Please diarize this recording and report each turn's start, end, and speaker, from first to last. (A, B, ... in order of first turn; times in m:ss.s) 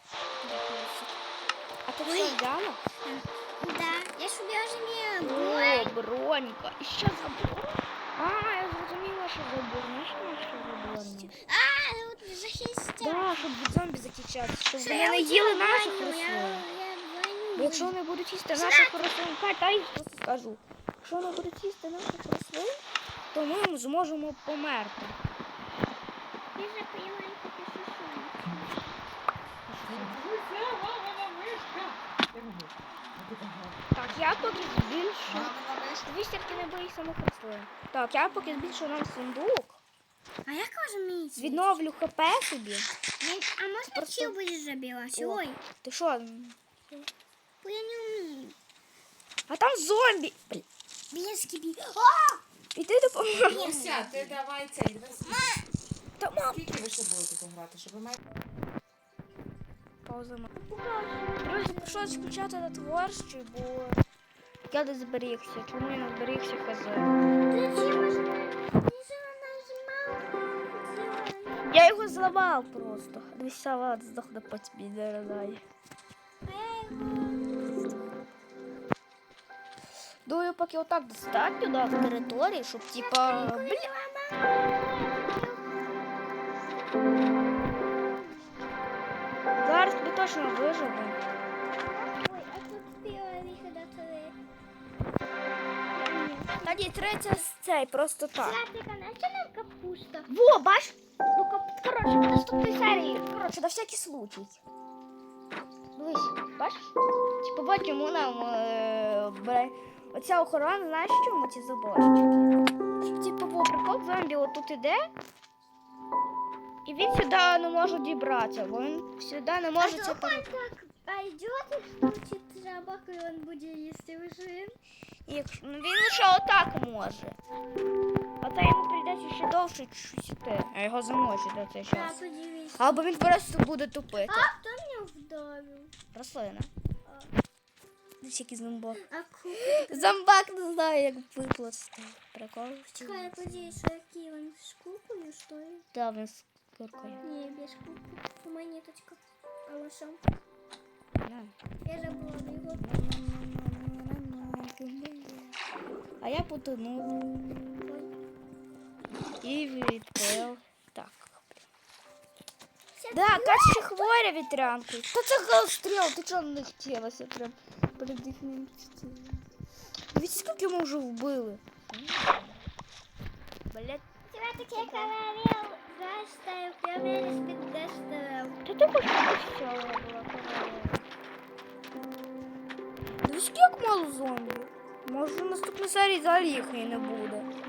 0:00.4-0:01.2 A
0:01.9-0:02.8 A
0:02.0-0:02.4 B
0:03.0-0:06.0 B
0:05.2-0:11.3 A
0:11.4-0:13.4 B
0:13.0-0:16.6 A
0:14.8-0:17.9 B
0:17.6-0:22.8 A
0:18.5-0:19.0 B
0:23.3-0:25.2 A
0:26.6-0:28.9 B
0:29.7-0:30.2 A
0:29.9-0:33.7 C
0:33.9-0:39.8 A
0:40.5-0:41.7 B
0:41.4-0:42.9 A
0:43.2-0:45.6 B
0:43.9-0:44.4 A
0:45.2-0:47.1 A
0:47.6-0:48.6 B
0:49.5-0:50.7 A
0:51.1-0:52.4 B
0:52.7-0:53.8 A
0:53.4-0:54.4 B
0:53.8-0:55.4 C
0:55.2-0:55.7 B
0:56.2-0:56.8 A
0:56.6-0:58.2 C
1:00.0-1:00.6 A
1:00.6-1:02.2 B
1:01.4-1:04.0 A
1:04.7-1:07.1 A
1:07.5-1:11.7 B
1:11.6-1:15.6 A
1:16.4-1:18.0 B
1:20.3-1:23.9 A
1:23.0-1:25.8 B
1:28.1-1:28.6 B
1:29.6-1:31.2 A
1:31.7-1:34.4 B
1:36.0-1:36.9 B
1:36.6-1:38.6 A
1:38.4-1:40.3 B
1:40.3-1:44.6 A
1:46.0-1:52.5 A
1:53.0-1:55.0 A
1:56.8-2:00.5 A
1:59.8-2:04.8 B
2:05.3-2:07.4 A
2:08.4-2:12.2 A
2:11.9-2:13.0 B
2:12.8-2:14.5 A
2:14.1-2:15.9 B
2:16.1-2:16.7 A
2:17.1-2:17.3 B
2:18.2-2:19.0 A
2:19.0-2:20.1 B
2:19.6-2:23.8 A
2:23.0-2:25.8 B
2:25.9-2:27.2 A
2:27.2-2:30.2 B
2:31.2-2:31.5 A
2:31.8-2:32.8 B
2:32.7-2:35.6 A
2:36.2-2:37.7 A
2:37.8-2:38.1 B
2:39.4-2:41.6 A
2:43.0-2:44.1 B
2:43.1-2:49.4 A
2:50.1-2:52.6 A
2:53.7-2:54.0 A
2:54.3-2:58.6 B
2:54.7-2:55.1 A
2:58.6-3:01.0 A
3:03.2-3:07.5 A